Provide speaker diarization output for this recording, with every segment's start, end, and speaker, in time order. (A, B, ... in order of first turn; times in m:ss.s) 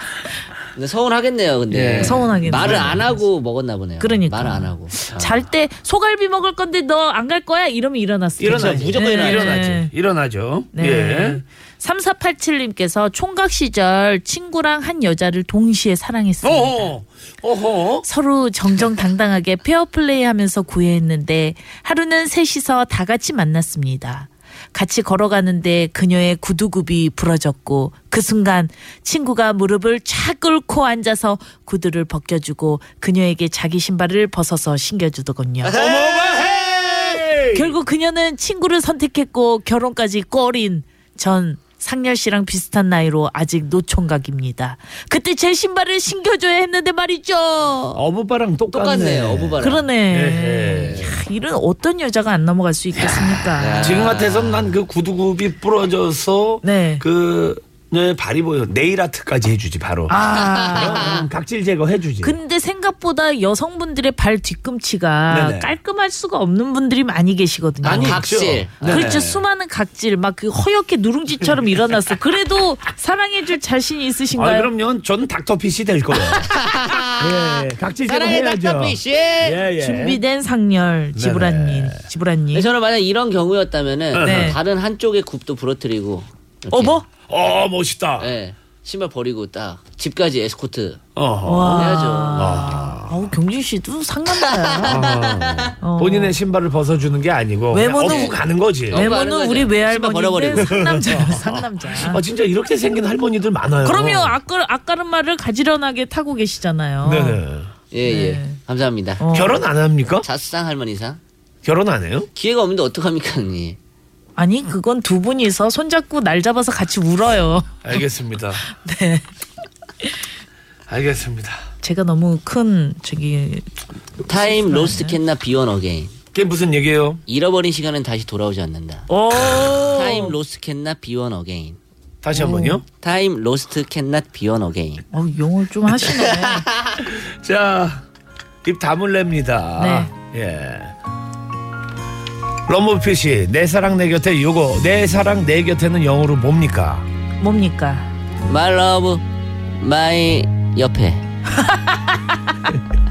0:00.7-0:05.5 A
0:01.7-0:03.0 B
0:02.0-0:03.2 C
0:04.0-0:09.9 C
0:08.4-0:09.8 A
0:08.4-0:11.4 B
0:10.7-0:16.9 C
0:16.4-0:18.0 B
0:18.0-0:35.7 C
0:35.6-0:37.2 A
0:35.7-0:37.7 B
0:37.5-0:48.0 C
0:47.9-0:51.1 B
0:48.7-0:49.9 A
0:49.6-0:54.0 C
0:50.7-0:51.2 A
0:53.0-0:53.3 B
0:53.5-0:54.7 A
0:53.8-1:00.2 B
0:56.6-0:57.0 C
1:00.1-1:01.2 C
1:00.3-1:01.2 A
1:00.7-1:02.4 B
1:02.2-1:14.7 C
1:05.3-1:05.7 B
1:07.8-1:09.2 A
1:07.8-1:09.4 B
1:14.3-1:16.5 B
1:16.2-1:19.6 A
1:17.2-1:20.2 B
1:19.7-1:22.7 C
1:21.2-1:22.1 B
1:22.5-1:27.0 A
1:24.1-1:24.6 B
1:24.2-1:24.6 C
1:26.7-1:27.0 C
1:27.3-1:28.3 B
1:28.2-1:31.0 A
1:31.2-1:33.2 B
1:31.4-1:35.1 C
1:31.7-1:32.8 A
1:34.3-1:35.7 A
1:34.8-1:39.1 B
1:35.8-1:36.3 C
1:37.7-1:42.2 C
1:37.9-1:40.8 A
1:40.6-1:44.4 B
1:43.8-1:47.4 C
1:47.0-1:47.7 B
1:47.9-1:49.2 A
1:48.0-1:48.6 C
1:49.2-1:49.6 C
1:49.3-1:50.3 B
1:50.2-1:51.2 A
1:51.6-1:52.3 B
1:52.3-1:53.8 A
1:54.4-1:57.9 C
1:57.8-1:58.6 B
1:58.6-1:59.2 C
2:00.9-2:01.6 B
2:01.8-2:03.6 C
2:04.2-2:06.1 A
2:04.3-2:05.2 C
2:06.3-2:07.2 B
2:07.3-2:11.8 A
2:09.1-2:10.4 C
2:12.2-2:12.8 B
2:12.3-2:12.8 C
2:12.9-2:15.0 A
2:15.1-2:16.7 C
2:16.0-2:17.0 A
2:17.1-2:18.0 B
2:18.6-2:20.9 B
2:19.8-2:20.1 C
2:22.7-2:27.1 B
2:27.4-2:28.1 C
2:28.5-2:29.2 A
2:29.8-2:31.2 A
2:31.6-2:32.1 C